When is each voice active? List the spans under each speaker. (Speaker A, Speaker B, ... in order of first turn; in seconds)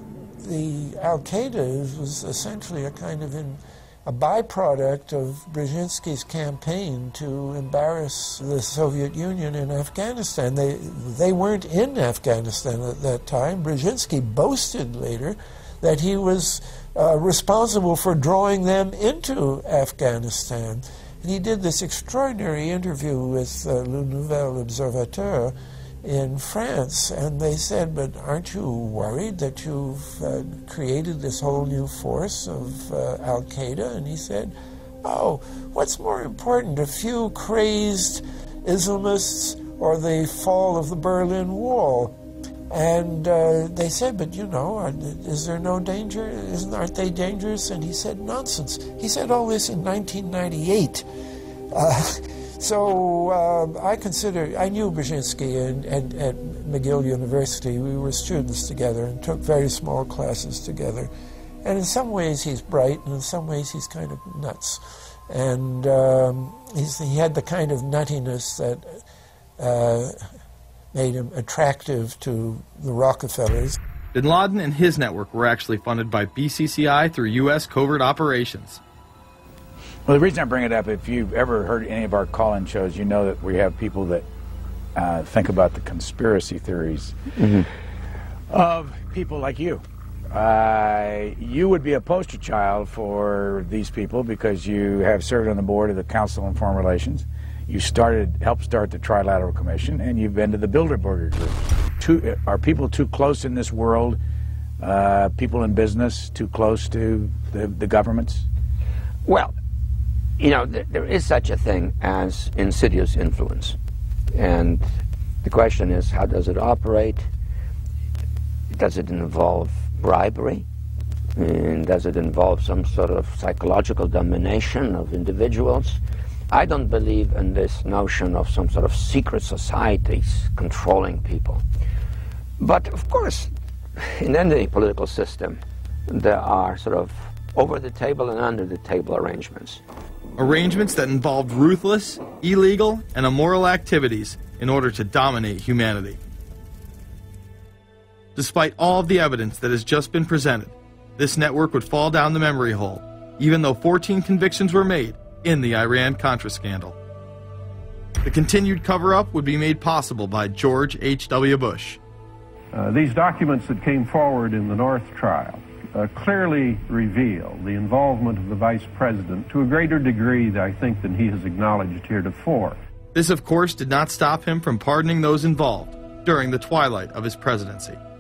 Speaker A: 0.4-42.1, 42.7-51.0, 51.7-61.1, 61.6-69.0, 69.6-70.2, 70.9-73.8
Speaker B: 74.1-78.8, 140.4-146.2, 148.4-156.9, 158.2-162.0, 173.2-178.0
Speaker C: 80.1-84.3, 85.0-87.2, 88.5-104.2, 104.8-108.5
Speaker D: 109.2-109.5, 110.4-113.8, 114.3-114.9, 115.4-117.3, 118.7-120.7, 121.4-131.6, 132.6-139.8
Speaker E: 162.7-172.8